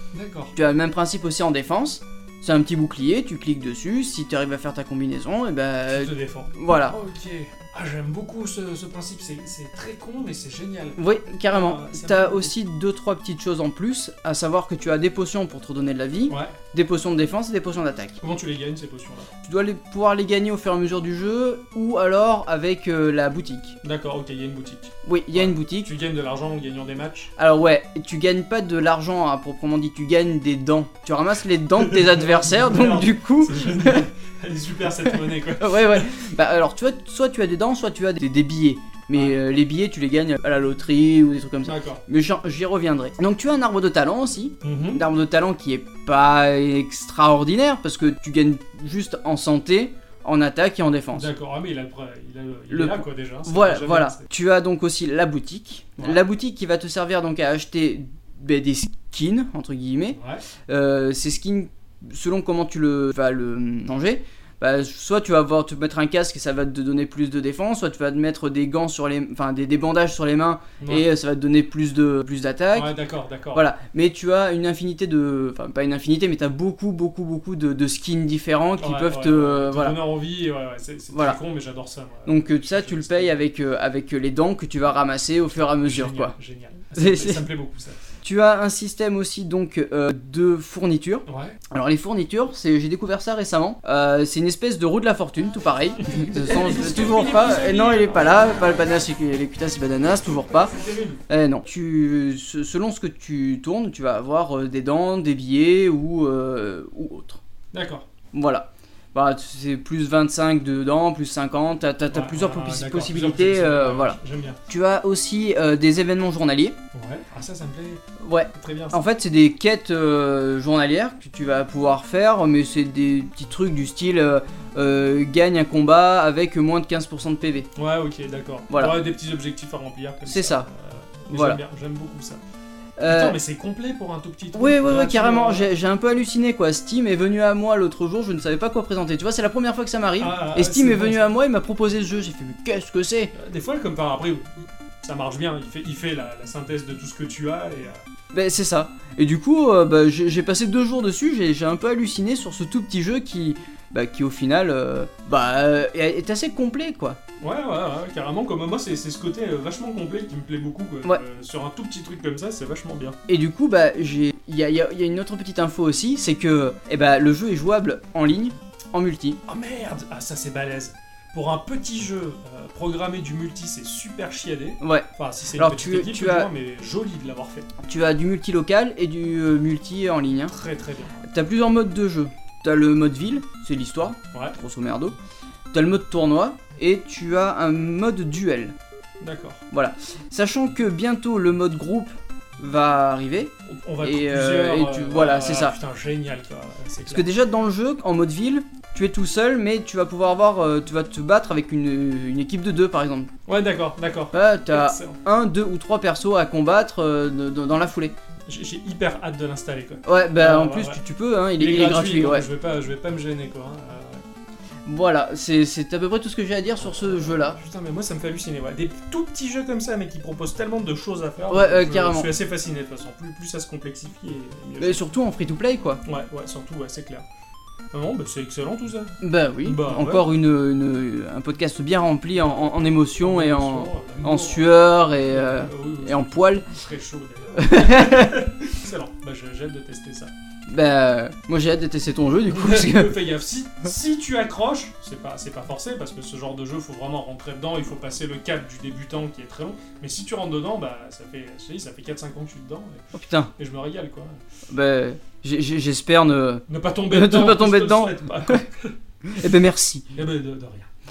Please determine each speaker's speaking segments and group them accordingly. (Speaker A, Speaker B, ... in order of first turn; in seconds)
Speaker A: 0.1-0.5, 5.9-12.5, 16.3-16.6, 18.2-19.3, 23.8-27.3, 31.8-36.1, 39.1-39.4, 41.6-42.0, 44.6-45.0, 51.1-54.3, 60.1-60.4, 70.8-71.1, 72.7-73.7, 78.8-83.4, 85.6-88.0, 91.3-91.6, 96.0-98.7, 100.6-101.2, 107.7-108.0, 112.1-114.6, 116.9-118.0, 118.5-119.0, 127.8-132.4, 133.1-135.7, 140.2-141.3, 143.3-148.0, 157.4-163.2, 169.5-177.7, 180.5-181.3, 189.2-189.6, 193.7-197.3, 203.5-205.2, 208.5-211.0, 211.6-214.2, 216.8-225.1, 226.0-227.2, 227.9-230.3, 232.4-240.3, 242.5-254.4, 256.7-259.4, 260.1-260.9
Speaker B: 0.5-7.0, 11.0-18.2, 19.4-23.8, 25.0-25.9, 27.4-34.1, 35.6-51.3, 52.7-73.0, 73.5-80.0, 81.1-81.4, 82.2-86.3, 86.9-87.4, 88.2-100.7, 101.3-107.4, 108.3-114.2, 114.7-116.8, 118.2-127.7, 128.7-129.0, 130.3-130.7, 131.3-131.6, 133.0-133.4, 134.5-143.3, 148.3-157.2, 163.3-169.4, 174.8-176.5, 177.8-180.5, 181.3-185.2, 185.7-188.8, 189.7-195.8, 197.1-203.3, 204.3-208.1, 210.0-212.5, 214.8-217.6, 221.5-222.3, 224.8-226.0, 229.2-236.7, 237.5-238.4, 240.7-243.2, 253.1-253.5, 254.7-258.6, 259.2-260.1